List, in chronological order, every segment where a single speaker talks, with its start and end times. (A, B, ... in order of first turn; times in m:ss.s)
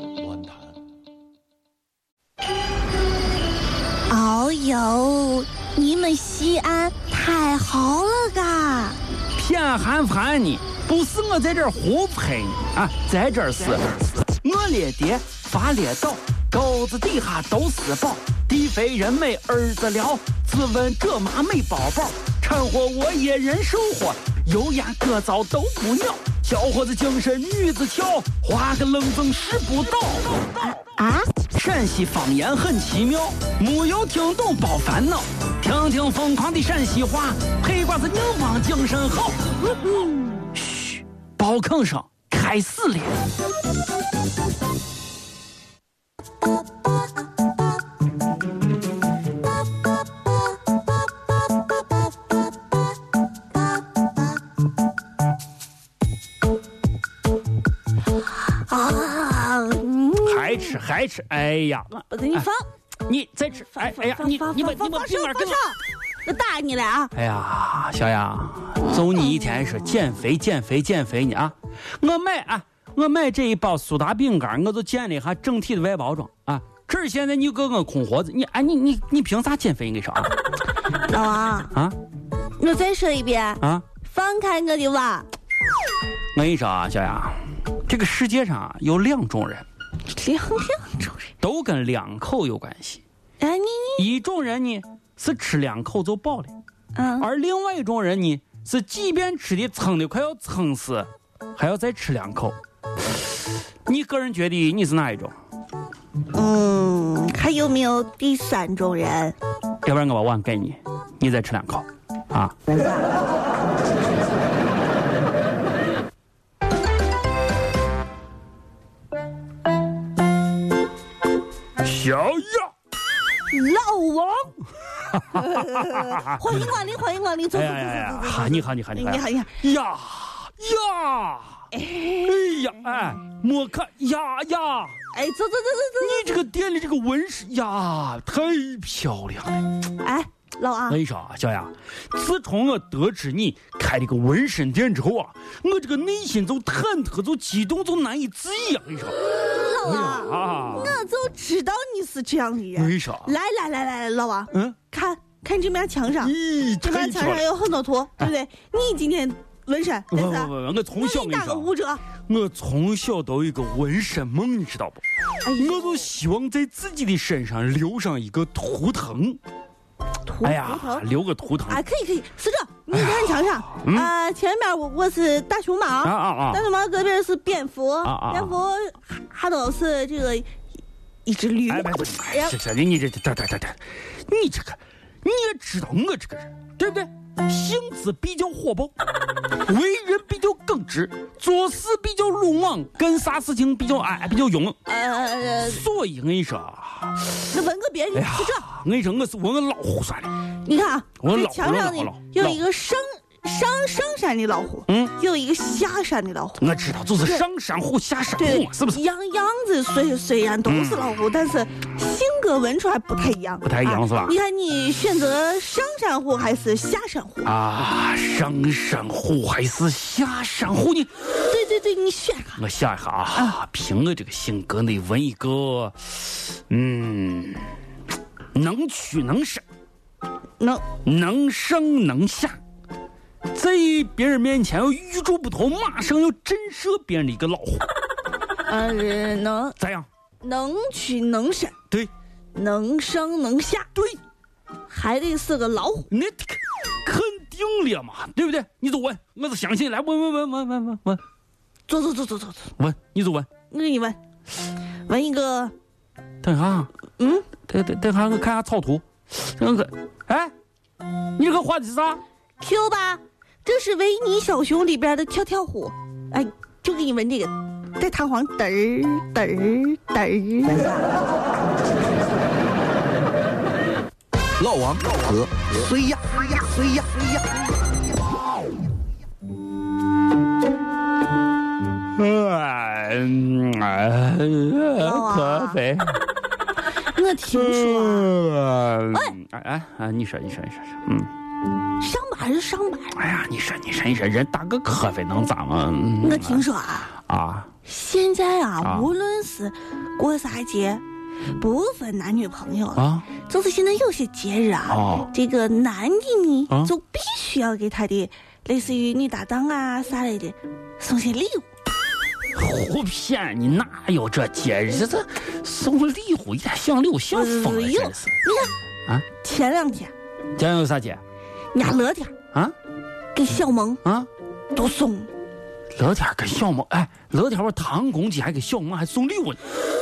0:04.1-0:09.0 A
0:09.3-0:30.5 B
0:30.6-0:31.3 A
0:31.5-0:39.5 B
0:39.9-0:40.1 A
0:40.5-0:43.2 B
0:58.4-1:00.7 A
1:00.2-1:02.5 B
1:02.0-1:02.6 A
1:03.0-1:05.6 B
1:03.7-1:07.1 A
1:07.1-1:20.3 B
1:08.8-1:09.7 A
1:21.0-1:21.7 A
1:22.6-1:25.3 A
1:26.3-1:29.7 B
1:30.1-1:31.3 A
1:31.4-1:33.0 B
1:33.4-1:34.1 A
1:34.0-1:36.5 B
1:36.9-1:37.3 A
1:37.2-1:42.6 B
1:43.8-1:45.4 B
1:46.3-1:49.4 A
1:49.8-1:52.5 B
2:01.8-2:02.7 B
2:03.5-2:04.6 A
2:05.1-2:06.6 B
2:05.3-2:09.6 A
2:07.5-2:11.7 B
2:11.7-2:13.1 A
2:12.2-2:15.0 B
2:15.1-2:16.4 A
2:16.0-2:19.7 B
2:20.0-2:21.0 A
2:20.9-2:29.2 B
2:29.5-2:42.0 A
2:29.8-2:31.0 B
2:32.7-2:33.3 B
2:36.2-2:37.4 B
2:40.1-2:41.7 B
2:42.2-2:49.4 B
2:45.4-2:46.1 A
2:50.2-2:51.0 A
2:50.4-2:51.8 B
2:51.6-3:00.5 A
2:52.9-2:54.1 B
2:56.0-2:56.6 B
2:58.0-2:58.6 B
3:01.2-3:02.6 A
3:01.7-3:08.9 B
3:09.6-3:14.8 B
3:14.8-3:15.8 A
3:15.7-3:17.4 B
3:17.5-3:18.6 A
3:18.1-3:20.4 B
3:20.6-3:26.6 A
3:21.2-3:22.6 B
3:24.9-3:25.1 B
3:26.6-3:29.0 B
3:28.4-3:37.5 A
3:30.6-3:31.2 B
3:33.6-3:34.4 B
3:37.4-3:41.1 B
3:41.4-3:42.6 A
3:42.6-3:47.7 B
3:48.5-3:49.6 B
3:50.6-3:50.9 A
3:51.0-3:52.6 B
3:53.5-3:57.9 B
3:58.6-3:59.7 A
3:59.8-4:00.1 B
4:00.4-4:01.7 A
4:02.5-4:03.9 A
4:04.9-4:06.1 A
4:06.1-4:11.2 B
4:11.9-4:12.7 A
4:12.8-4:13.5 B
4:13.7-4:14.2 A
4:15.0-4:15.7 A
4:16.4-4:16.9 B
4:17.2-4:17.5 A
4:17.7-4:20.5 B
4:21.4-4:22.2 B
4:22.6-4:31.0 A
4:34.6-4:37.2 C
4:42.1-4:46.2 B
4:45.0-4:45.8 A
4:47.1-4:48.4 A
4:47.6-4:51.3 B
4:52.0-4:53.2 A
4:53.1-4:57.7 B
4:56.2-4:57.1 A
4:57.8-5:01.0 A
4:58.8-4:59.1 B
5:01.6-5:11.6 A
5:03.0-5:03.3 B
5:04.9-5:05.3 B
5:12.5-5:18.3 B
5:17.3-5:18.7 A
5:19.4-5:20.1 A
5:20.6-5:21.2 B
5:21.7-5:22.3 A
5:23.3-5:24.0 A
5:24.0-5:24.3 B
5:24.7-5:25.3 A
5:25.9-5:29.6 B